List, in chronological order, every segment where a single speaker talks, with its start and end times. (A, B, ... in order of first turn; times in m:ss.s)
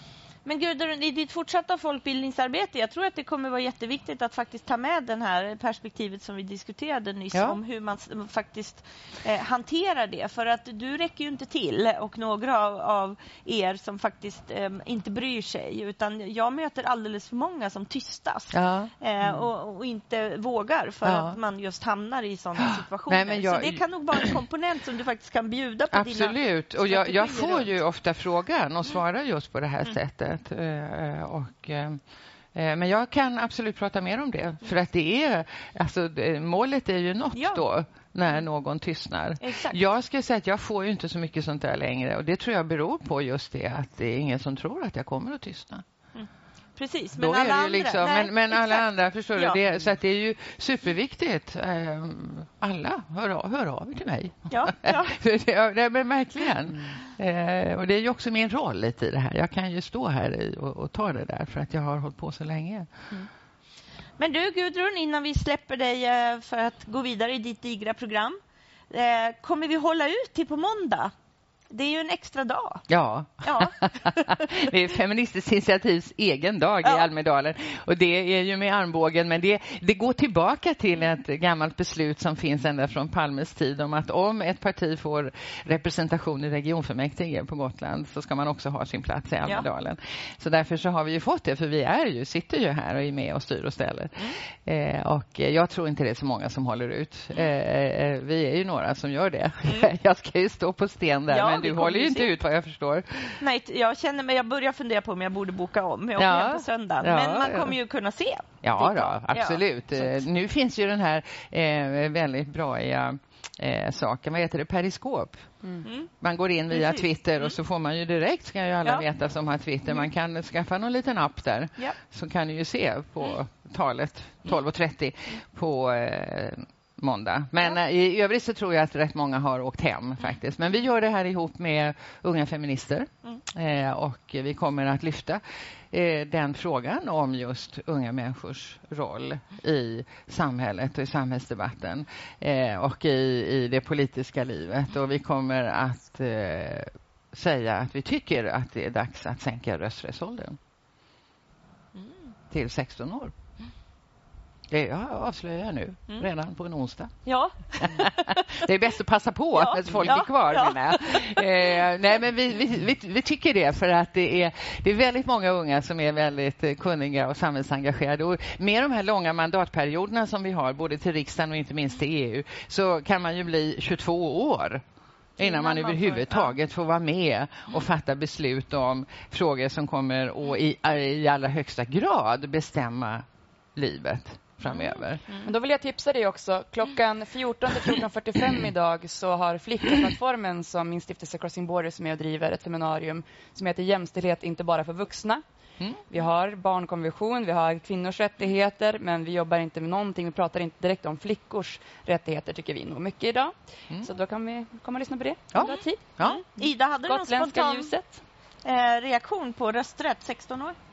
0:00.4-0:27.7 A
0:07.3-0:07.6 B
0:18.5-0:19.4 B
0:21.0-0:21.4 B
0:22.6-0:24.4 B
0:25.9-0:32.0 B
0:32.5-0:45.8 B
0:37.3-0:37.6 A
0:39.4-0:39.8 A
0:46.1-0:49.6 A
0:47.2-1:02.9 B
0:54.5-0:55.2 A
0:56.7-0:57.0 C
1:04.2-1:08.4 A
1:08.9-1:11.1 A
1:11.7-1:12.8 A
1:12.9-1:43.4 B
1:13.4-1:14.7 A
1:39.6-1:39.9 A
1:41.3-1:42.3 A
1:43.4-1:50.2 A
1:46.2-1:47.8 B
1:48.6-1:55.4 B
1:55.8-1:56.1 A
1:56.2-2:30.6 B
1:56.7-1:57.5 A
2:32.5-2:33.3 B
2:34.7-2:37.2 B
2:37.2-2:38.7 A
2:37.8-2:54.8 B
2:39.5-2:41.8 A
2:55.4-3:05.2 B
2:55.4-2:56.5 A
3:04.7-3:05.5 A
3:05.4-3:15.4 C
3:15.8-3:16.0 B
3:16.1-3:26.0 C
3:25.5-3:26.4 B
3:26.2-3:27.9 A
3:27.1-3:28.2 C
3:28.6-3:30.8 A